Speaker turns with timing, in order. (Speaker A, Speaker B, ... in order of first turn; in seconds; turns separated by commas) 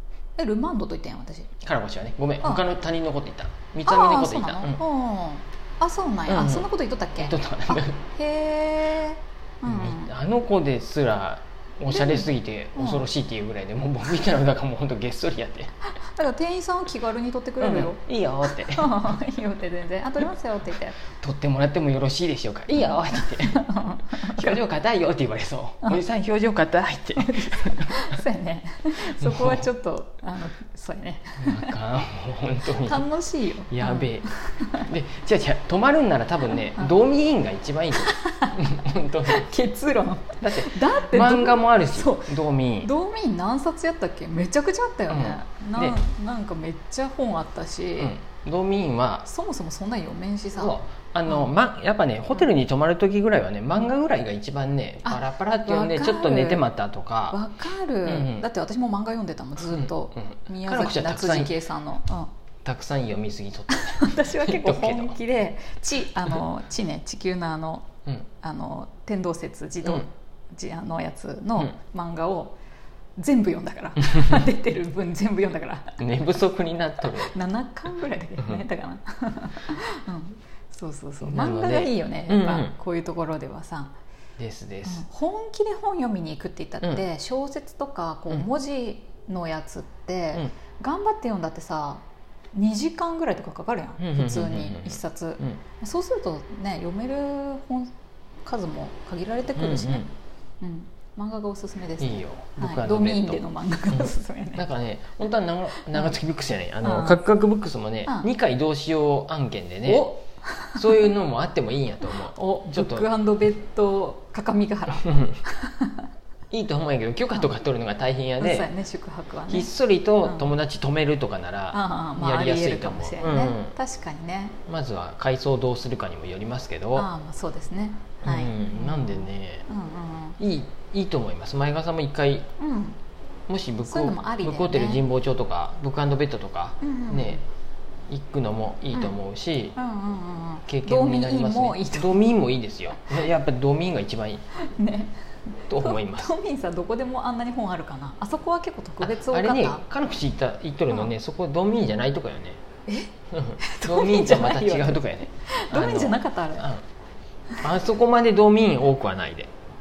Speaker A: 0.4-1.5, Speaker B: 1.6-4.8, Speaker A: 2.4-2.7, Speaker A: 3.8-10.1, Speaker B: 6.3-8.0, Speaker B: 9.6-15.7, Speaker A: 11.9-13.1, Speaker A: 16.0-18.0, Speaker B: 17.6-19.1, Speaker A: 18.6-21.0, Speaker B: 21.1-28.0, Speaker A: 23.3-24.6, Speaker A: 27.2-31.7, Speaker B: 29.2-29.6, Speaker B: 31.4-33.0, Speaker A: 32.7-34.8, Speaker B: 33.7-39.5, Speaker A: 38.0-38.6, Speaker A: 39.2-48.1, Speaker B: 40.4-42.9, Speaker B: 45.1-46.0, Speaker B: 48.0-49.3, Speaker A: 49.2-51.5, Speaker B: 50.5-57.4, Speaker A: 55.0-56.7, Speaker A: 57.3-62.3, Speaker B: 58.0-58.4, Speaker B: 59.6-61.5, Speaker B: 62.6-65.2, Speaker A: 63.8-67.9, Speaker A: 68.4-72.6, Speaker B: 69.8-70.1, Speaker A: 73.2-76.0, Speaker B: 76.0-77.3, Speaker A: 77.1-83.9, Speaker B: 81.2-82.7, Speaker B: 84.4-85.0, Speaker A: 84.8-97.9, Speaker B: 94.0-95.6, Speaker A: 98.4-100.1, Speaker B: 99.5-100.1, Speaker A: 100.6-104.6, Speaker B: 102.0-110.2, Speaker A: 105.9-106.2, Speaker A: 106.8-107.2, Speaker A: 109.8-111.0, Speaker B: 110.7-113.1, Speaker A: 112.1-116.0, Speaker B: 115.0-115.4, Speaker B: 116.5-118.7, Speaker A: 118.4-119.7, Speaker B: 119.5-123.7, Speaker A: 120.2-120.5, Speaker A: 121.7-124.6, Speaker B: 124.7-127.1, Speaker A: 126.9-130.4, Speaker B: 128.2-129.7, Speaker B: 130.4-132.5, Speaker A: 132.6-133.0, Speaker B: 133.5-137.4, Speaker A: 133.8-135.0, Speaker A: 136.8-137.4, Speaker B: 138.1-139.8, Speaker A: 139.8-142.3, Speaker B: 140.7-144.4, Speaker A: 144.6-149.8, Speaker B: 145.7-146.3, Speaker B: 149.0-152.6, Speaker A: 152.9-156.7, Speaker B: 153.3-156.8, Speaker B: 157.6-159.5